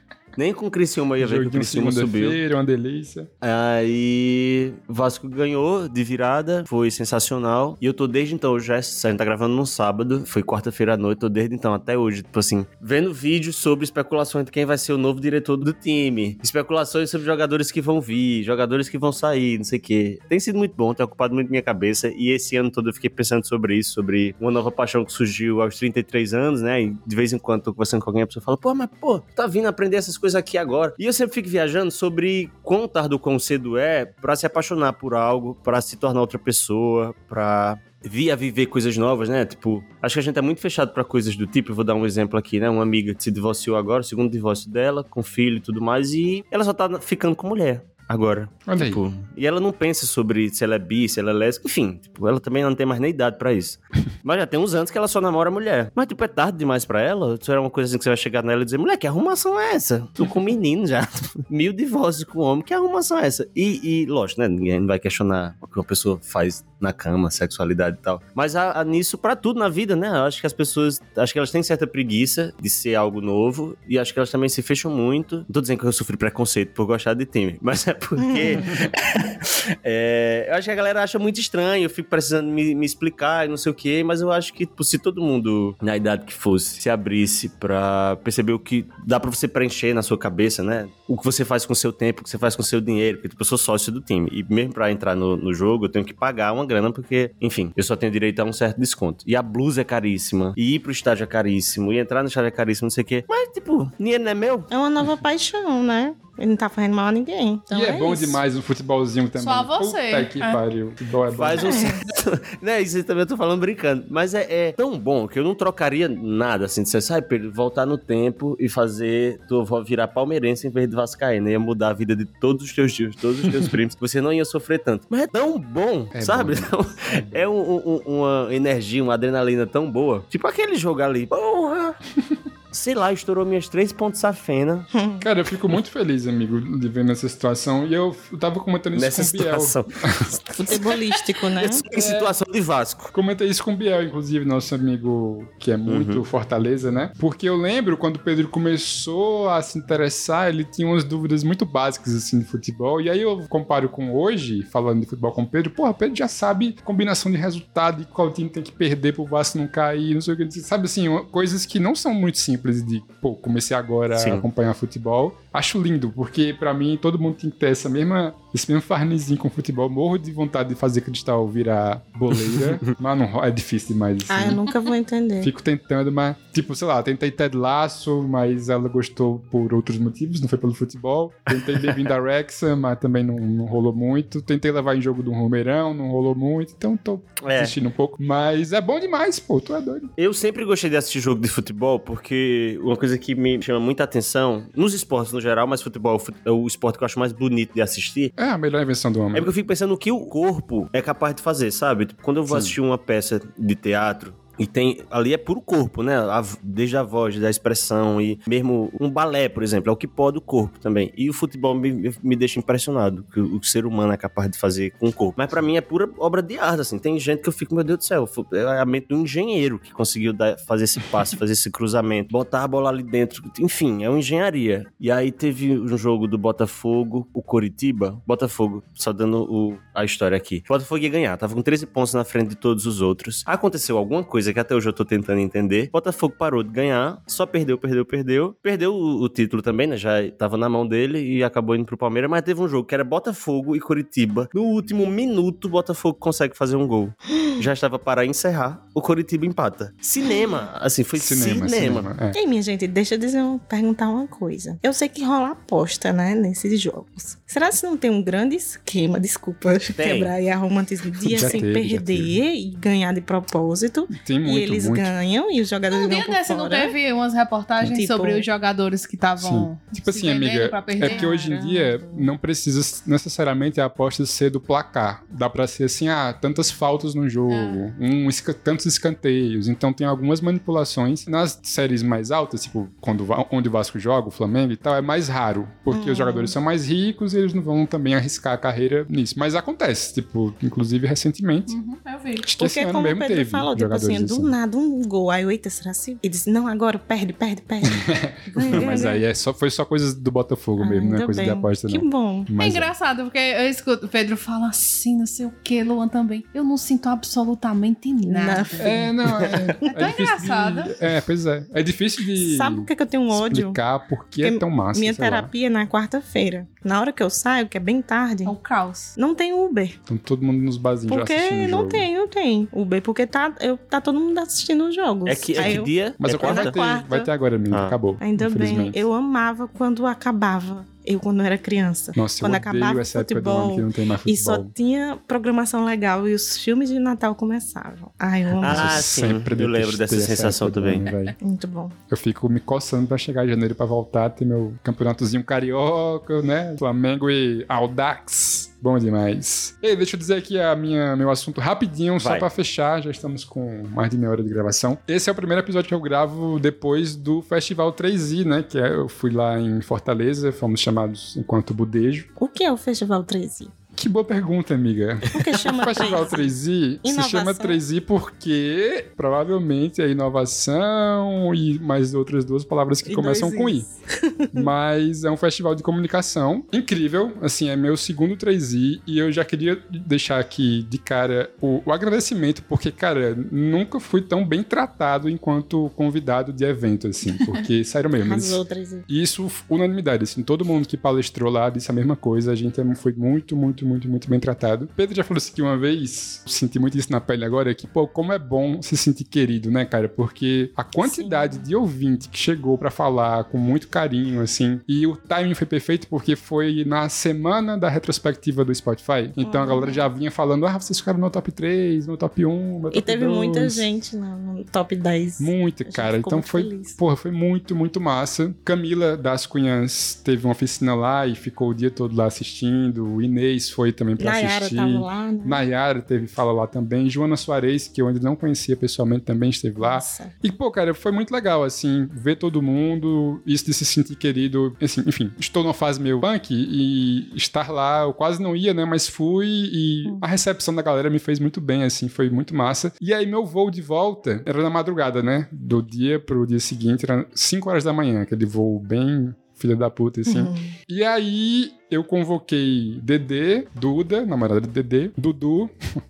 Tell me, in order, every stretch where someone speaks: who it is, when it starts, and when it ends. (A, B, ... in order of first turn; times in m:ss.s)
0:00.4-0:02.4 A
0:01.2-0:03.3 B
0:03.4-1:44.7 A
0:48.7-0:49.0 B
1:18.2-1:18.7 C
1:44.7-1:48.4 C
1:47.7-1:51.9 B
1:49.4-1:50.6 D
1:51.3-2:12.0 A
1:51.6-1:52.0 C
2:06.1-2:07.5 B
2:12.7-2:14.9 A
2:14.9-2:15.3 C
2:15.2-2:20.4 B
2:18.9-2:20.8 A
2:20.5-2:21.8 C
2:21.5-2:23.1 A
2:21.9-2:22.3 B
2:23.1-2:54.6 B
2:25.8-2:26.2 A
2:44.1-2:44.4 A
2:54.3-2:55.5 C
2:55.4-3:10.1 B
3:01.6-3:02.0 A
3:07.4-3:07.8 A
3:10.2-3:18.3 A
3:18.4-3:19.5 B
3:19.3-4:12.1 A
3:22.5-3:22.8 B
4:11.2-4:12.4 B
4:12.3-4:27.0 C
4:19.9-4:20.3 A
4:21.3-4:22.4 B
4:24.1-4:25.1 B
4:25.9-4:31.3 D
4:27.8-4:28.5 C
4:29.4-4:51.8 B
4:31.0-4:32.3 C
4:37.5-4:37.8 D
4:45.9-4:46.6 C
4:51.7-4:52.5 D
4:52.4-4:54.5 B
4:52.6-4:59.2 C
4:57.8-5:02.9 B
5:00.8-5:02.5 C
5:02.6-5:09.0 D
5:08.2-5:09.1 C
5:08.8-5:15.5 B
5:09.3-5:09.6 A
5:09.9-5:10.9 D
5:12.4-5:13.8 C
5:14.4-5:18.5 C
5:18.4-5:19.1 D
5:19.2-5:20.0 C
5:20.1-5:22.1 B
5:21.1-5:27.3 C
5:25.2-5:26.8 A
5:26.2-5:29.0 B
5:27.7-5:28.0 A
5:28.2-5:39.0 C
5:32.1-5:34.7 B
5:38.6-5:41.3 B
5:38.6-5:41.1 A
5:41.1-5:41.3 D
5:41.4-5:41.9 C
5:42.1-6:02.3 B
5:52.2-5:52.5 A
6:02.4-6:03.7 C
6:03.9-6:13.9 B
6:05.3-6:07.8 C
6:13.0-6:14.7 C
6:14.5-6:53.8 B
6:28.2-6:29.0 C
6:41.0-6:41.6 C
6:49.4-6:50.1 C
6:52.9-6:57.0 C
6:55.4-7:35.7 B
7:04.2-7:05.6 C
7:09.8-7:10.3 C
7:30.2-7:30.7 C